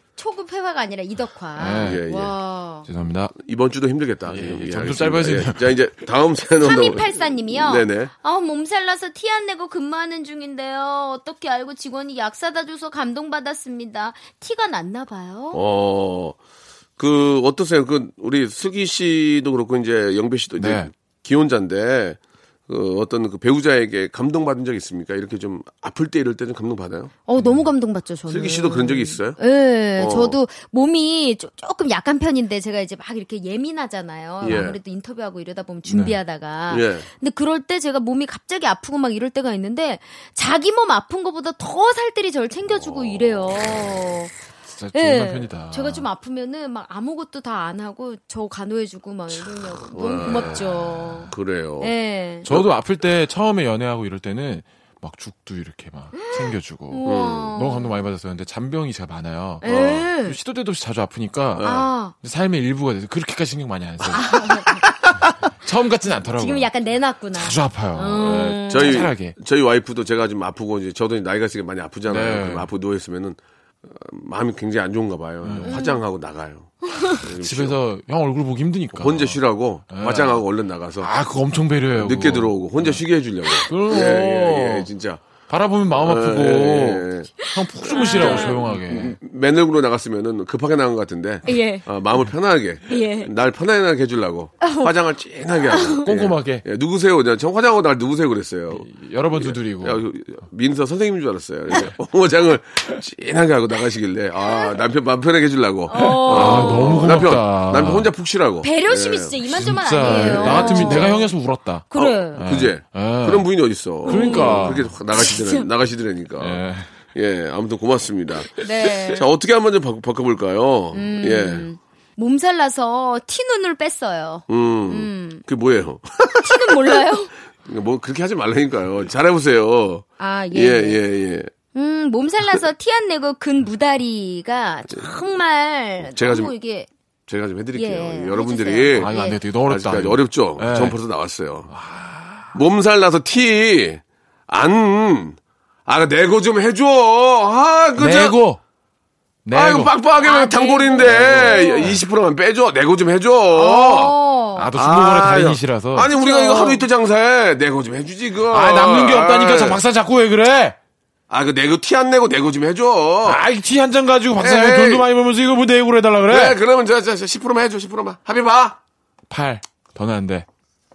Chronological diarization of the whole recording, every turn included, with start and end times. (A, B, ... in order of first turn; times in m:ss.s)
0:00.2-0:02.9 A
0:01.6-0:02.0 B
0:01.8-0:02.3 C
0:02.8-0:03.3 B
0:03.3-0:08.1 C
0:04.3-0:05.8 B
0:06.6-0:15.6 A
0:15.5-0:16.4 C
0:17.0-0:27.1 C
0:20.6-0:20.9 B
0:27.2-0:44.3 A
0:28.3-0:29.4 C
0:30.0-0:30.4 C
0:34.4-0:34.8 C
0:34.4-0:34.7 B
0:35.9-0:36.2 B
0:36.7-0:37.1 C
0:42.7-0:43.4 C
0:44.7-0:46.0 B
0:44.9-0:52.5 A
0:49.9-0:50.8 C
0:50.2-0:51.3 B
0:51.3-0:51.9 C
0:52.4-1:06.7 B
0:56.1-0:57.9 A
0:57.0-0:57.5 C
0:59.6-1:00.4 A
0:59.6-1:00.1 C
1:01.5-1:01.9 C
1:01.6-1:02.1 A
1:04.1-1:04.9 A
1:06.3-1:09.0 A
1:07.3-1:09.4 B
1:08.6-1:17.8 C
1:12.1-1:12.7 B
1:15.4-1:15.8 B
1:15.6-1:16.0 A
1:16.9-1:17.2 A
1:17.3-1:19.4 B
1:18.9-1:21.1 C
1:19.9-1:20.4 B
1:21.0-1:23.0 B
1:21.9-1:25.2 C
1:23.5-1:24.0 A
1:23.6-1:24.9 B
1:25.5-1:29.2 B
1:25.9-1:49.4 C
1:27.4-1:28.6 A
1:31.4-1:31.8 A
1:32.9-1:33.3 A
1:34.6-1:34.9 A
1:35.7-1:36.0 A
1:36.0-1:36.6 B
1:38.7-1:40.0 B
1:44.4-1:44.7 A
1:45.9-1:47.3 A
1:45.9-1:48.1 B
1:48.6-1:51.3 A
1:49.5-1:54.9 B
1:50.0-1:51.2 C
1:51.9-1:52.4 A
1:51.9-1:56.6 C
1:54.0-1:55.7 A
1:56.4-1:56.9 B
1:57.1-2:01.7 C
1:58.5-1:59.2 A
2:00.9-2:05.4 A
2:04.5-2:07.1 C
2:06.3-2:07.3 A
2:07.6-2:11.5 C
2:10.2-2:11.0 A
2:11.7-2:16.9 A
2:16.0-2:16.5 C
2:17.3-2:19.1 C
2:17.7-2:19.4 A
2:19.0-2:21.0 B
2:19.7-2:21.7 C
2:21.7-2:22.5 B
2:22.5-2:28.4 C
2:28.0-2:28.6 B
2:29.4-2:29.9 B
2:29.5-2:34.1 C
2:30.2-2:32.0 A
2:31.1-2:32.0 B
2:33.5-2:34.7 A
2:34.6-2:36.1 B
2:34.7-2:39.8 C
2:36.0-2:36.8 A
2:38.5-2:40.8 B
2:41.3-2:43.4 C
2:43.2-2:46.6 B
2:44.4-2:45.1 C
2:46.2-2:48.8 C
2:49.3-2:50.4 B